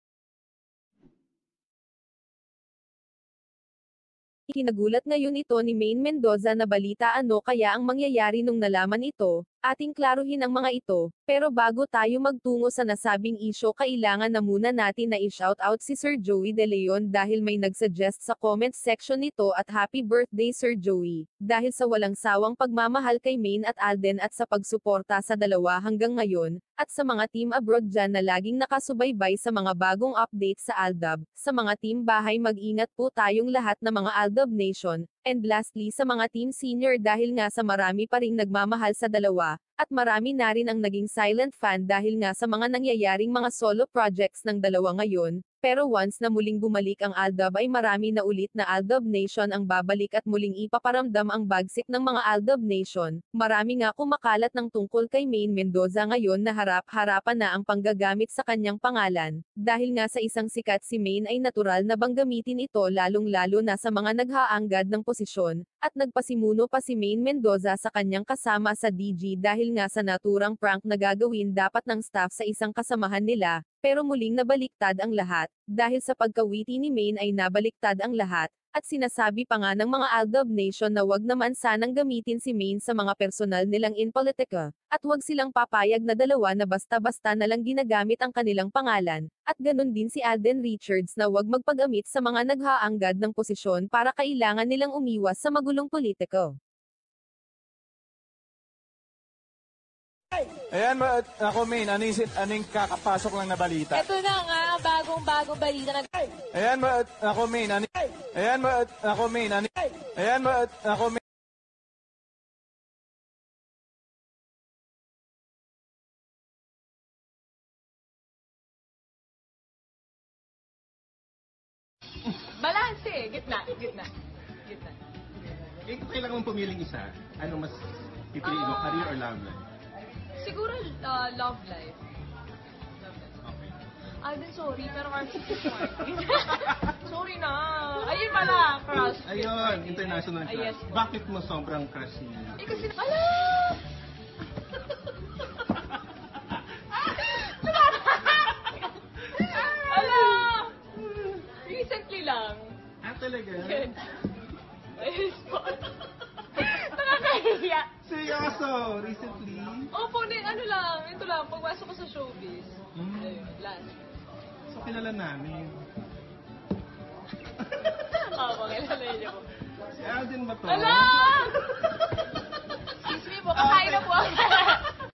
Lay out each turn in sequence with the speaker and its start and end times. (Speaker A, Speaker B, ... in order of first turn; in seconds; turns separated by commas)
Speaker A: 4.5-96.5, Speaker B: 100.7-104.1, Speaker C: 103.9-106.2, Speaker B: 106.5-111.2, Speaker C: 122.5-124.1, Speaker C: 124.7-125.0, Speaker D: 125.8-129.7, Speaker C: 128.7-129.1, Speaker C: 130.4-132.0, Speaker C: 133.0-133.3, Speaker D: 133.4-133.8, Speaker C: 134.2-141.1, Speaker D: 139.1-142.9, Speaker C: 142.6-143.9, Speaker C: 147.0-150.8, Speaker D: 149.4-151.5, Speaker C: 151.6-152.8, Speaker D: 153.0-154.0, Speaker C: 153.6-153.9, Speaker C: 155.0-157.9, Speaker D: 158.0-159.9, Speaker C: 159.9-164.1, Speaker D: 162.9-163.5, Speaker D: 164.7-165.8, Speaker C: 168.0-169.5, Speaker D: 170.0-171.5, Speaker C: 170.6-171.8, Speaker C: 173.0-174.9, Speaker D: 173.5-174.2